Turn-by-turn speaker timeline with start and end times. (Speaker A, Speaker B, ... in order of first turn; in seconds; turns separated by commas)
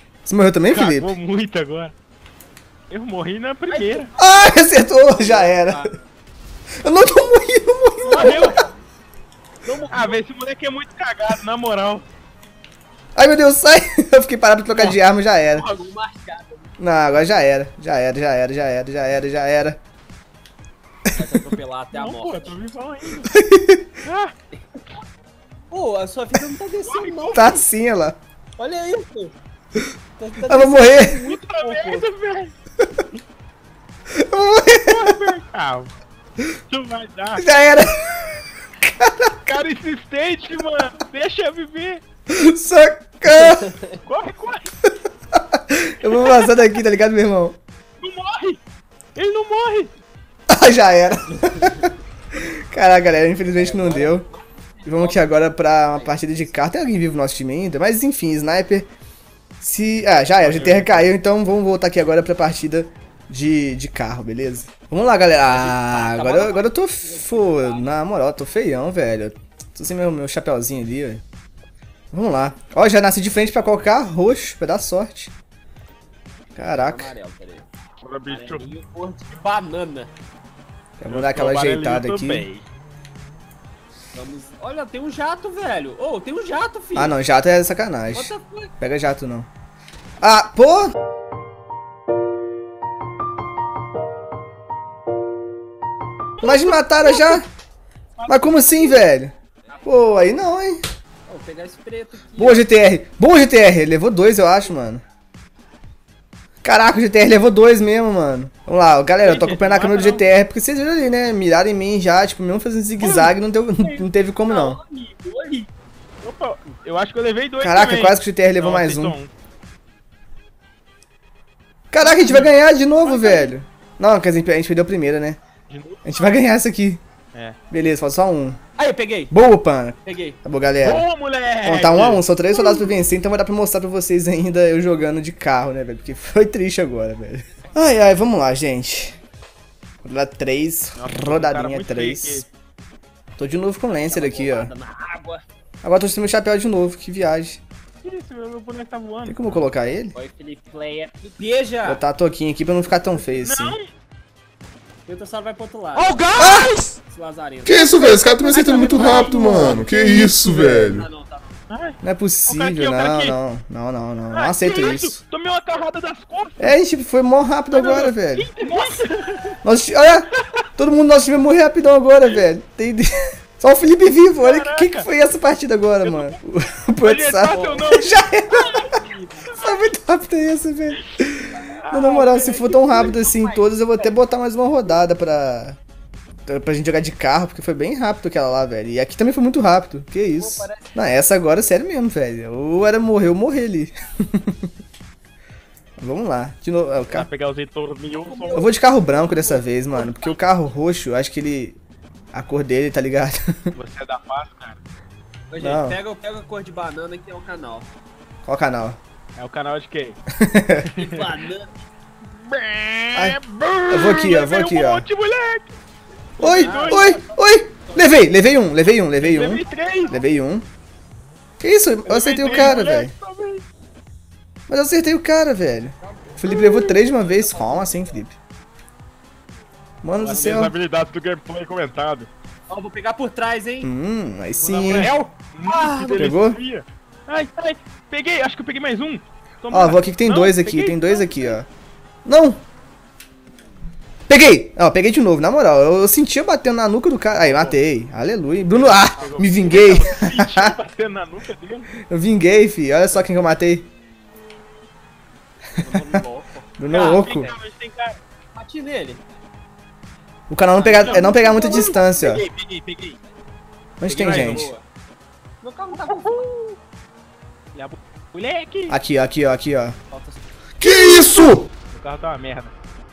Speaker A: 0.2-1.1, Speaker B: 0.7-1.9, Speaker B: 2.9-4.1, Speaker C: 3.7-4.6, Speaker A: 4.2-5.9, Speaker C: 5.1-6.0, Speaker A: 6.8-8.6, Speaker C: 8.0-8.7, Speaker B: 8.1-8.6, Speaker C: 9.6-10.2, Speaker B: 9.9-12.1, Speaker A: 13.2-15.7, Speaker C: 15.5-17.3, Speaker A: 16.8-19.8, Speaker C: 21.2-22.6, Speaker B: 21.9-23.3, Speaker A: 23.3-23.9, Speaker B: 24.1-24.3, Speaker C: 25.7-27.7, Speaker B: 26.9-27.4, Speaker A: 27.3-28.2, Speaker C: 28.6-29.3, Speaker C: 30.2-32.1, Speaker A: 30.5-31.2, Speaker B: 31.3-32.5, Speaker A: 34.1-35.4, Speaker B: 34.8-35.9, Speaker B: 36.7-37.5, Speaker A: 37.4-39.4, Speaker B: 39.5-42.0, Speaker A: 42.3-43.7, Speaker C: 43.3-44.0, Speaker B: 44.1-44.7, Speaker A: 44.9-47.6, Speaker B: 46.1-46.5, Speaker B: 48.0-48.6, Speaker B: 49.2-49.9, Speaker A: 50.5-54.3, Speaker C: 51.5-51.8, Speaker C: 53.5-56.6, Speaker A: 54.9-58.9, Speaker A: 59.6-71.2, Speaker B: 60.3-61.1, Speaker C: 65.5-67.9, Speaker A: 72.1-75.3, Speaker A: 76.6-77.1, Speaker C: 76.6-77.7, Speaker B: 78.0-78.7, Speaker C: 78.3-80.1, Speaker A: 81.0-82.5, Speaker B: 81.1-82.7, Speaker C: 84.1-87.2, Speaker A: 87.0-89.5, Speaker C: 88.1-88.7, Speaker A: 90.2-90.9, Speaker B: 96.4-97.4, Speaker A: 96.4-97.5, Speaker B: 98.2-99.0, Speaker A: 98.3-100.8, Speaker C: 99.7-100.0, Speaker C: 101.3-102.7, Speaker A: 102.4-105.0, Speaker A: 106.6-114.8, Speaker B: 109.2-110.2, Speaker B: 113.0-113.3, Speaker C: 113.8-115.7, Speaker B: 116.2-119.3, Speaker A: 117.6-119.2, Speaker A: 121.9-125.4, Speaker B: 122.0-123.5, Speaker B: 125.7-126.4, Speaker A: 126.0-127.0, Speaker A: 127.7-128.6, Speaker C: 128.8-129.3, Speaker A: 129.3-131.1, Speaker C: 130.0-130.4, Speaker B: 130.8-132.3, Speaker A: 131.6-139.2, Speaker A: 140.0-142.5, Speaker B: 140.9-142.5, Speaker A: 143.4-144.7, Speaker C: 143.9-145.4, Speaker A: 145.8-147.6, Speaker B: 148.0-149.4, Speaker A: 149.3-150.2, Speaker C: 150.1-152.0, Speaker A: 151.8-153.8, Speaker B: 153.4-153.9, Speaker C: 155.1-156.4, Speaker B: 156.0-156.9, Speaker A: 156.4-156.7, Speaker C: 157.0-161.6, Speaker D: 157.7-161.1, Speaker A: 158.5-159.9, Speaker B: 161.7-163.4, Speaker A: 162.0-165.2, Speaker B: 164.3-166.8, Speaker A: 166.6-168.5, Speaker B: 167.7-169.4, Speaker A: 169.6-178.9, Speaker B: 170.3-170.6, Speaker B: 174.4-175.1, Speaker B: 176.0-176.4, Speaker B: 177.0-179.9, Speaker C: 177.4-179.6, Speaker A: 179.6-185.8, Speaker B: 180.9-181.2, Speaker C: 181.5-184.3, Speaker B: 181.8-183.2, Speaker A: 186.5-194.7, Speaker C: 190.3-191.0, Speaker A: 196.0-197.3, Speaker B: 197.1-198.6, Speaker C: 198.2-200.6, Speaker A: 198.5-201.8, Speaker A: 202.3-203.7, Speaker B: 203.8-204.8, Speaker C: 205.5-207.9, Speaker A: 205.6-206.0, Speaker A: 208.5-209.0, Speaker B: 209.4-210.2, Speaker A: 210.3-210.9, Speaker B: 210.8-211.4, Speaker C: 211.0-211.8, Speaker B: 212.5-215.7, Speaker A: 213.1-213.4, Speaker A: 213.9-215.1, Speaker B: 216.4-217.1, Speaker A: 216.4-220.7, Speaker C: 216.5-218.3, Speaker B: 219.2-220.2, Speaker A: 221.6-223.1, Speaker B: 222.1-223.6, Speaker A: 224.7-228.3, Speaker C: 226.0-228.2, Speaker A: 230.0-230.7, Speaker B: 230.2-232.3, Speaker C: 232.7-233.9, Speaker A: 233.8-235.1, Speaker B: 234.6-241.6, Speaker C: 235.6-236.4, Speaker A: 236.2-236.6, Speaker A: 239.7-241.7, Speaker A: 242.2-242.6, Speaker A: 244.3-250.8, Speaker B: 247.3-247.8, Speaker B: 248.7-251.9, Speaker C: 249.2-250.1, Speaker A: 252.0-253.9, Speaker C: 255.7-257.6, Speaker A: 256.8-257.5, Speaker B: 256.9-258.2, Speaker C: 258.6-259.2, Speaker A: 260.5-262.5, Speaker C: 260.8-261.9, Speaker B: 260.9-263.2, Speaker A: 264.0-264.7, Speaker B: 264.1-264.7, Speaker C: 264.2-264.8, Speaker C: 265.6-266.7, Speaker B: 266.0-266.6, Speaker B: 267.8-269.0, Speaker A: 268.9-270.0, Speaker C: 270.1-270.5, Speaker D: 270.8-271.7, Speaker B: 270.9-272.7